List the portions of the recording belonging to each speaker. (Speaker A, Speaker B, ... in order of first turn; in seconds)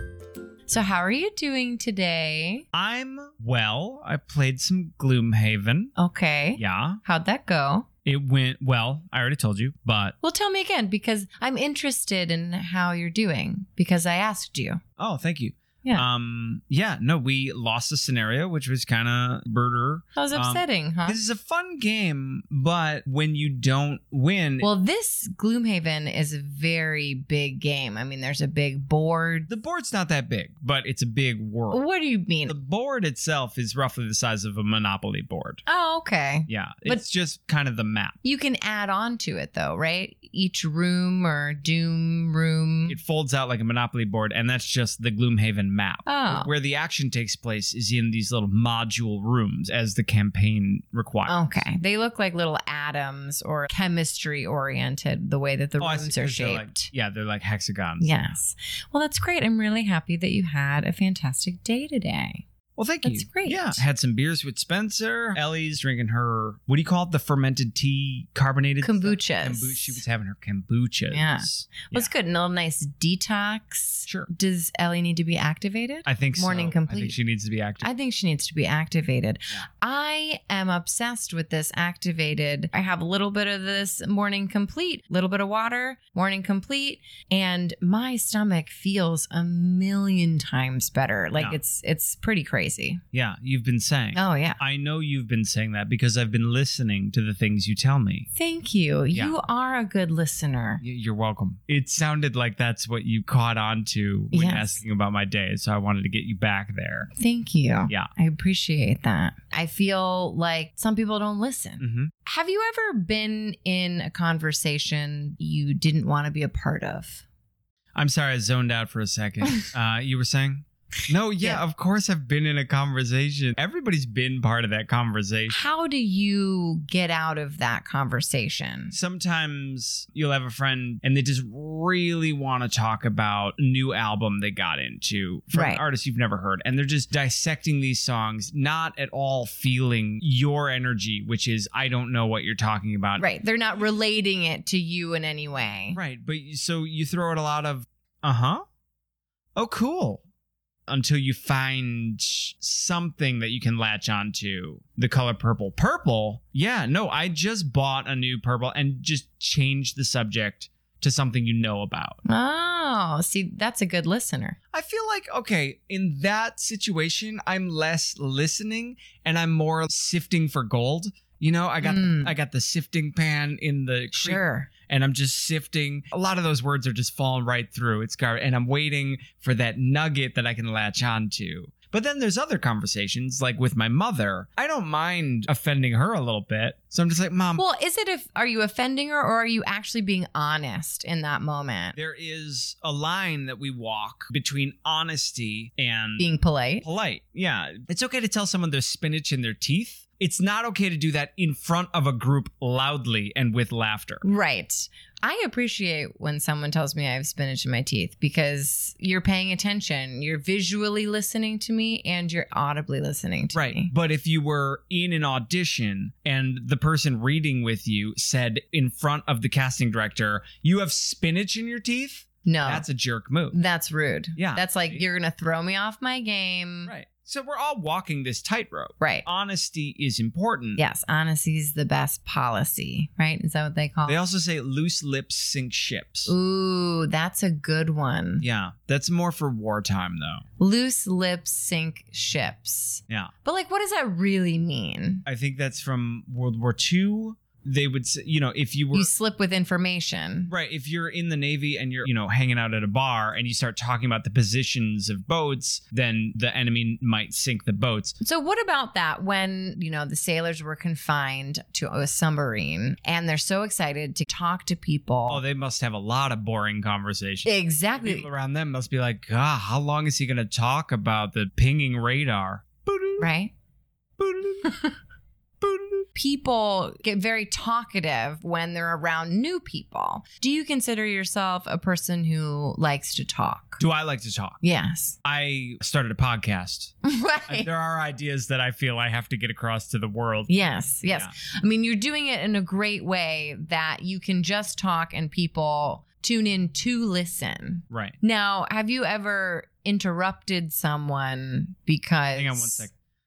Speaker A: 0.7-2.6, 6.0-7.9, 10.2-14.8, 20.1-21.2, 24.6-29.5, 31.7-32.5, 35.7-37.0, 38.2-43.0, 46.0-46.5, 51.3-56.9, 58.0-62.4, 63.0-63.8, 68.8-70.0, 71.1-77.2, 77.8-93.0, 94.1-94.6, 98.3-100.8, 104.3-104.8, 107.2-117.2, 125.5-128.9, 135.5-135.8, 143.2-146.0, 162.2-164.6, 171.8-172.3, 174.1-174.7, 187.6-191.9, 196.2-196.8, 204.2-213.9, 222.4-222.8, 223.5-226.9, 229.0-229.2, 230.8-234.3, 236.3-238.4, 240.6-245.2, 248.9-250.5, 258.2-265.4, 267.4-268.3, 273.2-273.5, 276.1-283.8, 284.6-285.2, 287.0-287.7, 290.5-302.9
Speaker B: 2.7-5.9, 6.5-7.0, 8.0-10.1, 15.0-24.7, 29.5-31.8, 32.5-35.6, 36.5-38.1, 42.9-51.6, 55.8-58.2, 62.8-72.1, 76.0-77.9, 93.1-98.3, 100.8-107.1, 111.8-112.1, 117.9-125.6, 128.9-143.2, 145.9-148.6, 149.6-150.2, 150.9-162.2, 164.7-187.6, 191.9-196.3, 196.8-204.2, 213.5-223.6, 224.3-225.0, 226.8-230.8, 234.1-236.3, 238.4-240.4, 245.2-249.1, 250.5-258.1, 265.3-273.3, 274.2-274.7, 275.6-276.1, 283.8-284.6, 285.2-286.9, 287.5-290.5, 291.1-291.3, 297.9-298.2, 302.3-302.9